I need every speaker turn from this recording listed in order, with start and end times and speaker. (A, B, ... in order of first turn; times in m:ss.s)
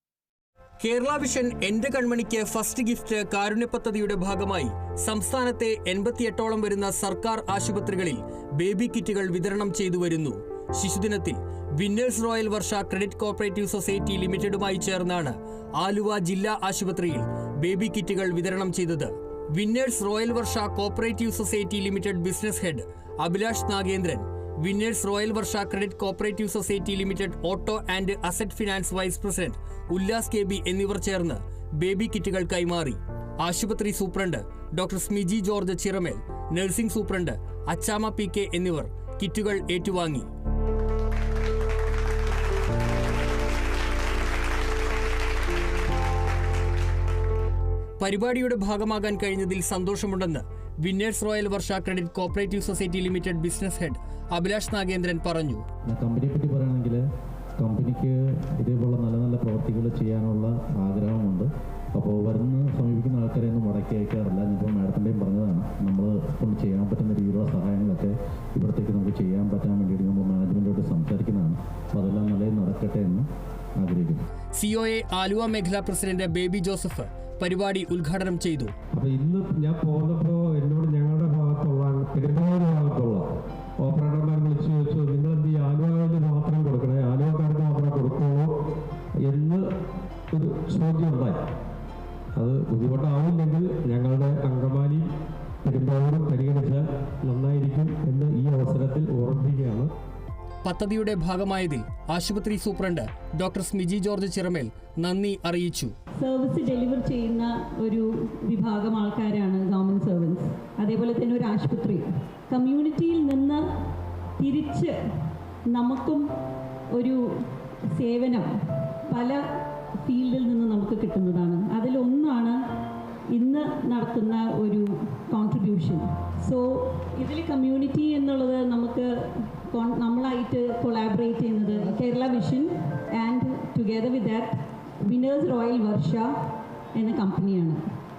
0:00.8-0:40.3 A
0:48.0-0:55.6 A
0:55.9-0:57.0 B
0:57.6-1:13.3 B
1:13.8-1:14.2 B
1:14.6-1:18.7 A
1:18.9-1:23.3 C
1:23.8-1:28.5 C
1:29.2-1:29.7 C
1:30.3-1:31.4 C
1:32.4-1:35.1 C
1:35.6-1:39.9 C
1:40.6-1:45.9 A
1:46.2-1:53.6 D
1:54.4-1:56.3 D
1:56.9-2:02.6 D
2:03.3-2:16.3 D
2:17.0-2:17.8 D